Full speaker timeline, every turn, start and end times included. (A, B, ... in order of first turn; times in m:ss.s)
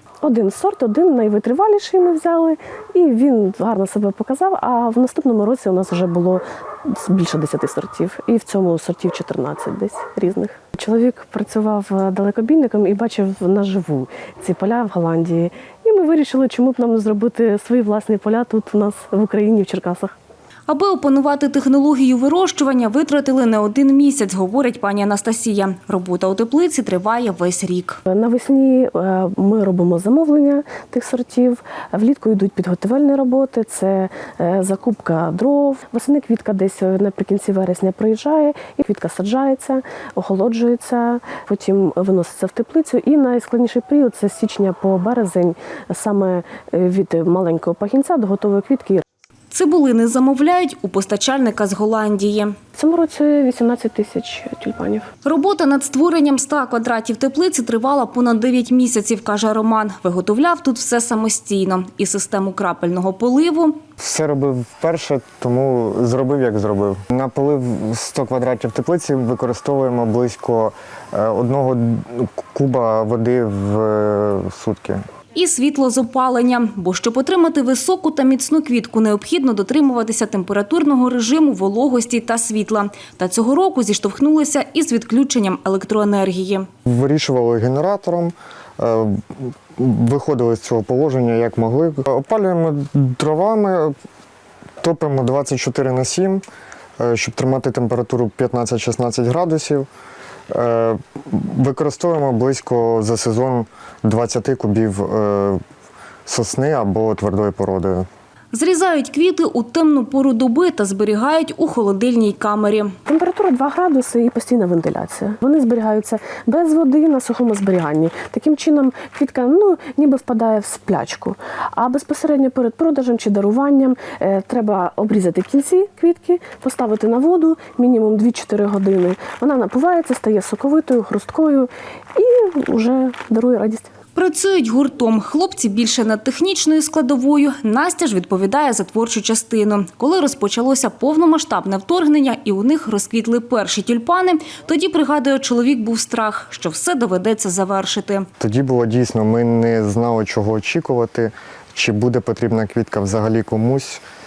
0:00.2-0:20.1 A
0:20.7-0:28.0 B
0:28.0-0:49.0 A
0:49.5-0:52.5 B
0:52.8-0:55.1 A
0:55.2-1:03.8 B
1:04.0-1:15.0 C
1:15.3-1:26.7 B
1:26.8-1:33.9 C
1:34.8-1:36.4 C
1:37.0-1:39.9 C
1:40.5-1:45.6 C
1:46.2-1:48.1 C
1:48.5-1:52.9 B
1:53.0-2:13.9 A
2:14.2-2:28.3 B
2:28.4-2:34.0 C